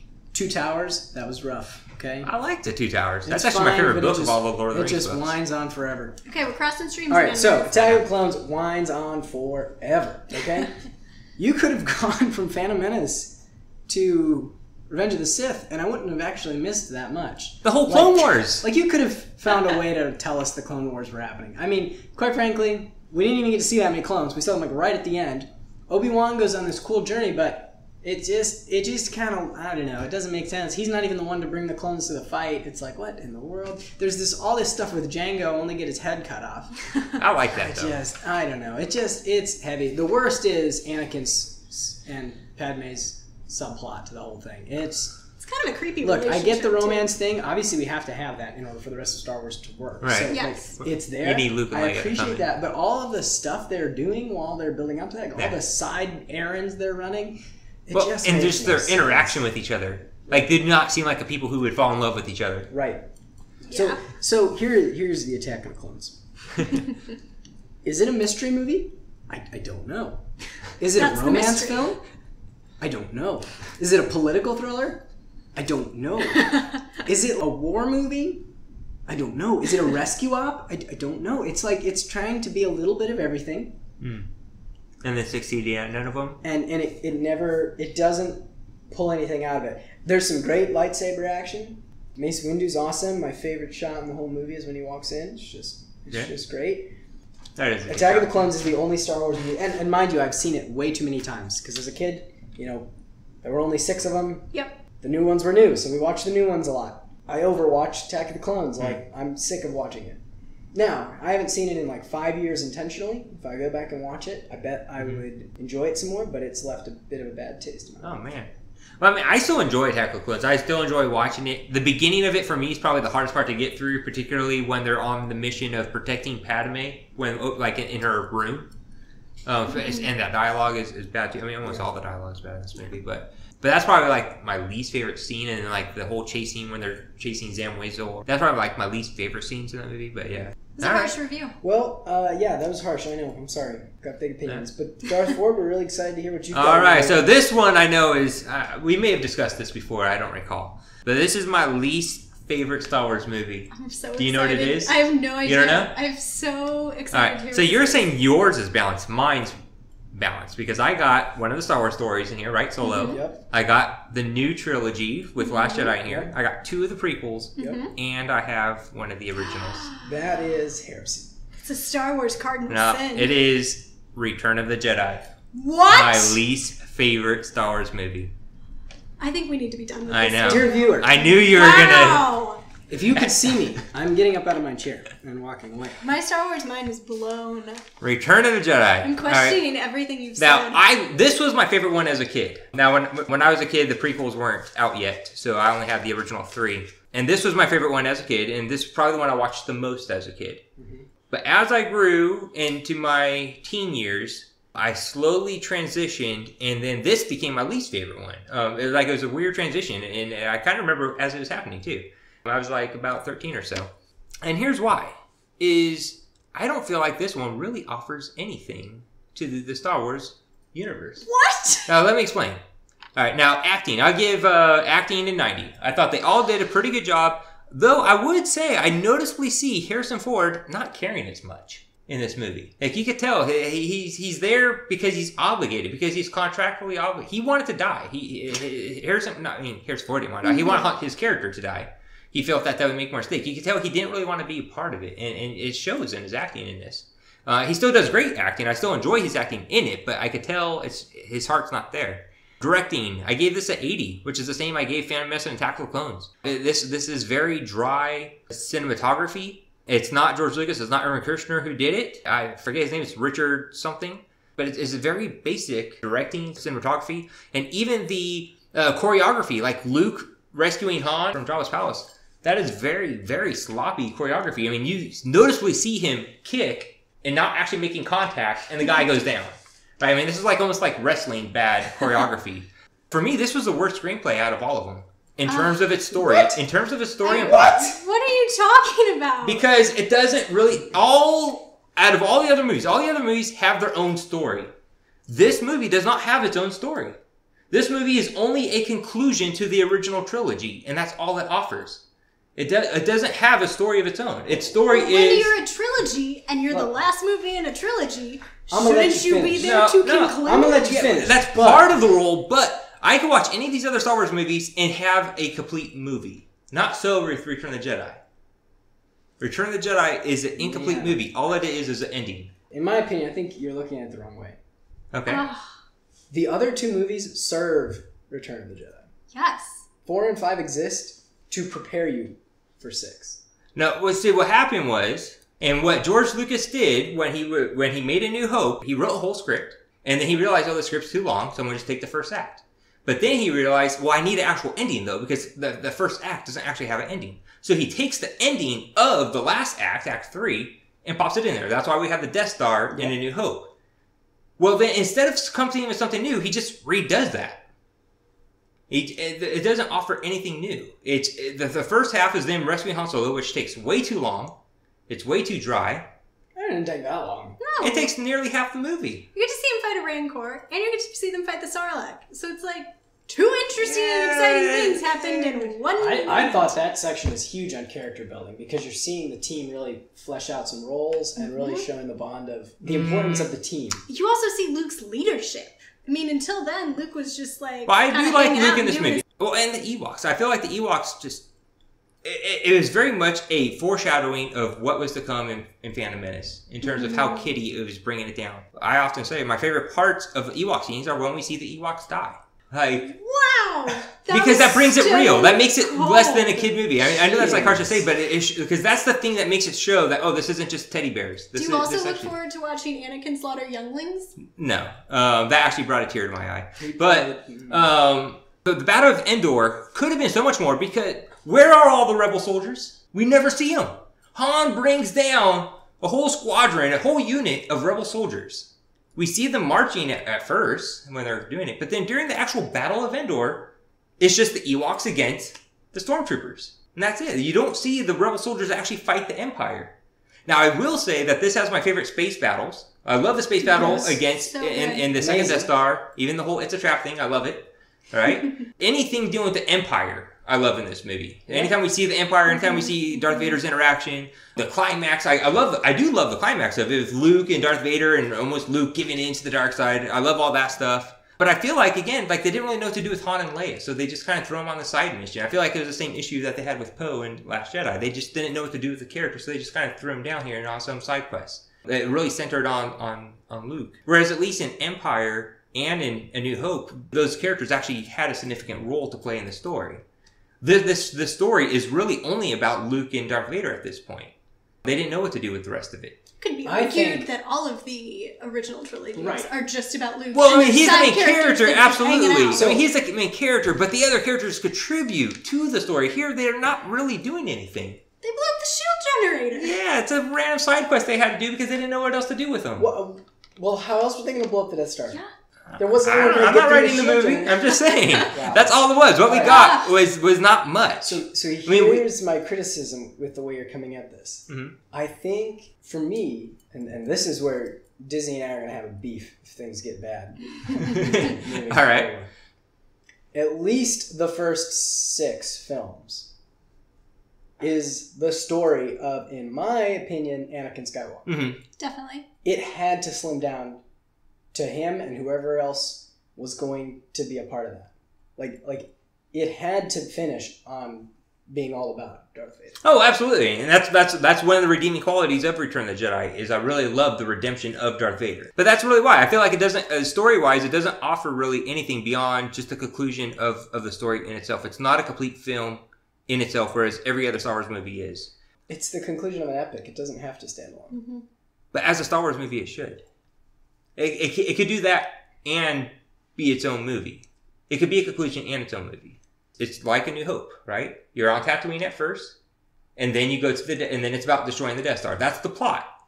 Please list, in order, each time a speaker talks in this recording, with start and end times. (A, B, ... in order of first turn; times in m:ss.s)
0:00.3-0:02.3 A
0:02.2-0:05.4 B
0:03.2-0:06.2 A
0:06.3-0:07.7 C
0:07.1-0:10.8 A
0:07.7-0:08.0 B
0:11.4-0:36.8 A
0:17.6-0:18.7 B
0:37.2-0:38.0 B
0:37.6-0:45.2 A
0:45.4-0:47.1 C
0:46.0-0:59.4 A
0:50.0-0:52.4 B
0:50.3-0:50.8 C
0:57.9-1:02.7 B
1:00.3-1:00.5 A
1:02.7-1:03.0 A
1:03.7-1:04.0 C
1:03.7-1:06.7 A
1:07.8-1:10.3 A
1:10.8-1:12.0 A
1:10.8-1:11.9 C
1:12.8-1:18.5 A
1:16.4-1:16.7 C
1:19.1-1:23.8 A
1:24.0-1:24.3 B
1:25.0-1:26.4 B
1:26.4-1:37.0 A
1:37.6-1:38.5 B
1:37.9-1:42.9 A
1:43.4-1:50.2 A
1:50.7-1:58.3 A
1:55.0-1:55.2 B
1:58.0-2:08.7 B
2:09.5-2:21.2 B
2:09.8-2:10.1 C
2:20.8-2:21.6 C
2:21.6-2:27.3 A
2:26.5-2:35.9 B
2:33.7-2:38.1 C
2:37.1-2:39.6 B
2:40.1-2:49.9 B
2:42.8-2:43.2 C
2:43.0-2:43.4 A
2:45.4-2:46.0 C
2:46.0-2:46.3 A
2:47.6-2:47.9 C
2:47.6-2:47.8 A
2:49.5-2:50.1 C
2:50.0-2:51.4 A
2:51.6-2:53.4 C
2:52.7-2:55.3 B
2:55.5-2:56.4 C
2:55.9-2:58.3 B
2:59.2-3:02.6 C
3:00.1-3:02.3 B
3:00.4-3:01.3 A
3:02.9-3:06.0 A
3:06.0-3:07.8 C
3:08.0-3:09.6 B
3:09.0-3:10.8 C
3:10.4-3:20.6 B
3:20.8-3:21.1 A
3:21.3-3:33.9 B
3:34.4-3:41.2 B
3:41.2-3:41.9 C
3:41.9-3:42.6 B
3:43.2-4:48.0 B
4:00.4-4:00.9 C
4:45.5-4:46.6 C
4:47.2-4:49.6 C
4:49.4-4:54.7 B
4:55.3-4:57.2 B
4:57.7-5:02.0 B
5:02.6-5:05.5 B
5:04.8-5:11.0 C
5:06.7-5:07.0 A
5:08.7-5:12.0 A
5:09.6-5:18.2 B
5:19.4-5:22.5 B
5:20.6-5:21.2 A
5:22.7-5:24.6 A
5:25.1-5:25.4 B
5:25.3-5:25.8 C
5:26.3-5:29.1 A
5:29.3-5:29.8 C
5:30.0-5:33.4 A
5:33.8-5:53.7 B
5:54.6-5:57.6 B
5:58.9-6:04.6 B
6:05.1-6:06.1 B
6:06.6-6:07.6 A
6:07.6-6:08.1 C
6:07.8-6:09.3 B
6:09.4-6:16.8 C
6:13.8-6:15.7 B
6:16.0-6:24.0 A
6:21.4-6:21.9 C
6:22.8-6:23.5 B
6:24.1-6:29.2 C
6:27.9-6:31.5 B
6:32.2-6:43.1 B
6:36.8-6:37.5 C
6:43.0-6:46.8 C
6:44.3-6:52.3 B
6:47.4-6:48.0 A
6:51.6-6:54.4 C
6:54.4-7:19.9 B
6:56.8-6:57.9 A
7:20.5-8:00.0 B
7:23.7-7:25.1 C
7:23.7-7:24.2 A
7:25.2-7:25.7 A
7:32.5-7:33.6 C
8:00.6-8:06.2 B
8:06.4-8:12.8 C
8:06.6-8:07.3 A
8:09.2-8:09.5 A
8:10.3-8:18.0 B
8:12.5-8:12.9 A
8:18.2-8:19.7 C
8:19.6-8:22.9 B
8:22.8-8:25.2 A
8:25.7-8:32.0 B
8:25.8-8:29.6 A
8:29.4-8:29.9 C
8:31.0-8:42.3 A
8:34.5-8:34.8 B
8:40.8-8:42.1 B
8:43.3-8:46.3 A
8:47.6-8:51.3 A
8:51.3-8:51.6 B
8:51.8-8:52.3 C
8:52.4-8:53.8 A
8:54.5-9:02.8 A
9:02.8-9:18.3 B
9:18.7-9:21.0 A
9:20.9-9:21.2 C
9:21.7-9:23.0 B
9:24.0-9:32.4 B
9:33.0-9:35.9 B